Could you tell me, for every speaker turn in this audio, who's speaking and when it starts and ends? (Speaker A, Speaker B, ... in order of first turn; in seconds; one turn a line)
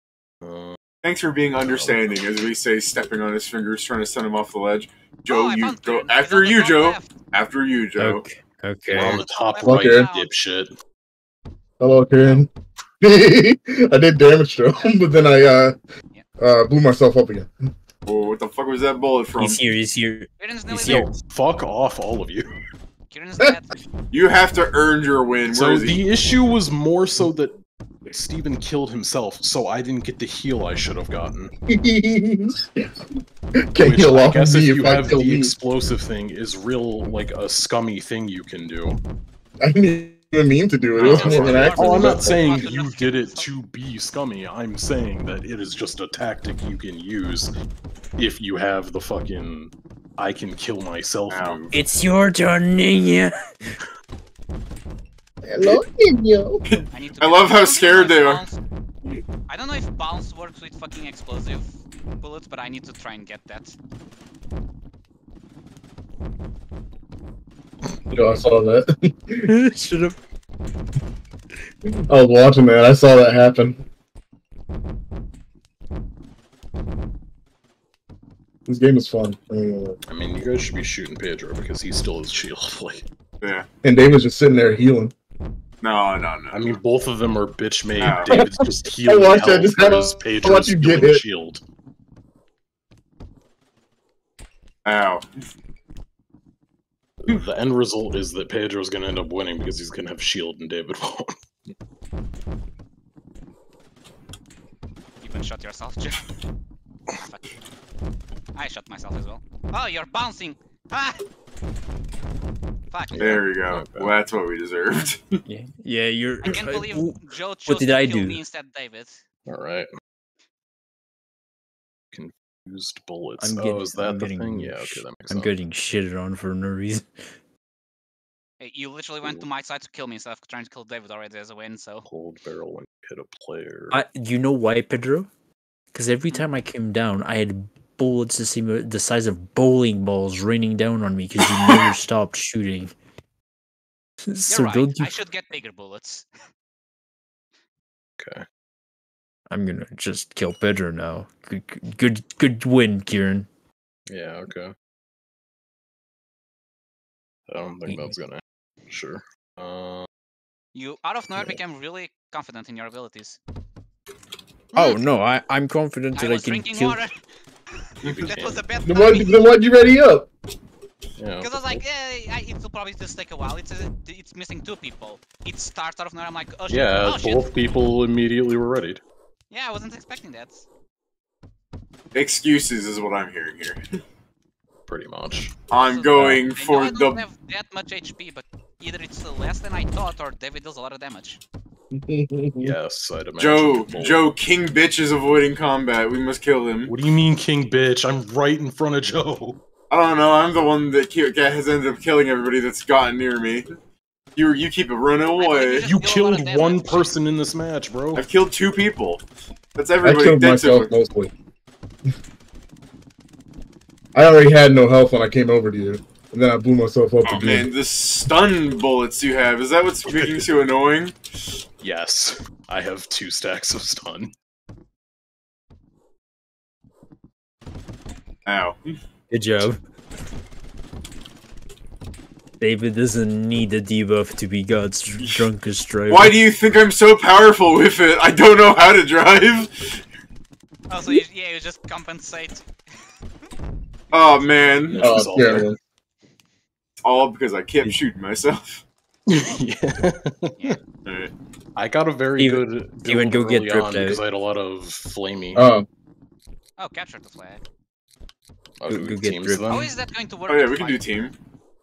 Speaker A: 0.4-0.8
Speaker B: 1.0-8.2
Speaker A: 1.6-2.2
Speaker C: 5.3-7.2
Speaker D: 8.0-9.2
Speaker A: 8.9-10.7
Speaker C: 9.0-10.3
Speaker E: 9.6-10.1
Speaker E: 11.8-12.5
Speaker E: 13.0-15.7
Speaker E: 16.4-17.5
Speaker B: 18.1-19.6
Speaker D: 19.4-21.1
Speaker C: 20.4-21.1
Speaker A: 20.8-22.5
Speaker C: 23.1-23.8
Speaker B: 24.1-26.0
Speaker A: 25.5-31.5
Speaker E: 31.7-32.9
Speaker E: 33.7-35.5
Speaker A: 33.8-39.0
Speaker E: 39.6-42.5
Speaker C: 41.0-43.5
Speaker B: 41.0-41.7
Speaker A: 41.0-47.5
Speaker A: 48.2-51.8
Speaker B: 51.3-51.6
Speaker D: 51.7-53.3
Speaker E: 55.4-56.6
Speaker B: 56.6-58.4
Speaker C: 56.9-58.6
Speaker C: 59.5-63.8
Speaker E: 68.1-69.5
Speaker D: 69.5-70.2
Speaker E: 72.1-73.8
Speaker E: 78.7-80.0
Speaker A: 80.1-83.0
Speaker E: 83.8-85.1
Speaker B: 85.8-86.8
Speaker A: 86.5-91.6
Speaker B: 88.0-88.3
Speaker E: 88.2-91.2
Speaker B: 94.8-95.2
Speaker A: 97.2-101.3
Speaker C: 105.2-106.2
Speaker C: 107.1-107.6
Speaker C: 108.5-111.2
Speaker C: 112.9-113.2
Speaker A: 113.1-114.1
Speaker B: 113.2-115.4
Speaker D: 115.5-118.4
Speaker C: 116.4-119.2
Speaker A: 119.5-119.9
Speaker A: 122.1-125.5
Speaker D: 123.4-127.1
Speaker C: 128.6-132.1
Speaker A: 132.1-134.0
Speaker D: 133.9-135.3
Speaker D: 135.9-142.9
Speaker A: 141.6-141.9
Speaker D: 144.3-145.1
Speaker C: 144.5-146.3
Speaker A: 148.2-148.4
Speaker D: 149.5-153.5
Speaker A: 154.1-154.7
Speaker A: 157.5-160.1
Speaker D: 157.9-158.2
Speaker C: 160.7-163.4
Speaker D: 164.8-167.1
Speaker C: 166.1-167.1
Speaker C: 167.8-169.4
Speaker A: 168.0-168.6
Speaker E: 168.8-170.3
Speaker A: 171.2-171.8
Speaker C: 171.4-177.5
Speaker A: 176.7-179.0
Speaker C: 179.5-180.7
Speaker B: 182.1-183.8
Speaker A: 184.9-185.5
Speaker B: 185.7-187.2
Speaker C: 185.7-191.4
Speaker E: 191.9-192.7
Speaker A: 192.6-194.2
Speaker B: 193.4-196.9
Speaker A: 196.8-199.6
Speaker B: 199.9-203.7
Speaker B: 204.3-205.9
Speaker C: 205.3-207.1
Speaker A: 205.8-208.2
Speaker B: 208.2-209.2
Speaker B: 209.8-210.9
Speaker E: 210.0-211.3
Speaker E: 214.1-217.7
Speaker B: 217.2-221.1
Speaker A: 220.1-220.4
Speaker A: 221.8-224.3
Speaker B: 228.4-228.8
Speaker D: 229.3-229.8
Speaker D: 232.6-236.3
Speaker B: 236.1-240.0
Speaker C: 240.9-242.6
Speaker B: 244.1-245.0
Speaker A: 244.9-245.7
Speaker E: 245.0-245.8
Speaker B: 247.0-248.8
Speaker A: 249.3-250.8
Speaker B: 251.1-251.3
Speaker A: 251.8-255.7
Speaker D: 252.4-254.2
Speaker E: 255.5-255.8
Speaker C: 256.8-257.6
Speaker A: 258.8-259.9
Speaker D: 258.9-259.7
Speaker C: 259.7-261.0
Speaker B: 260.5-261.3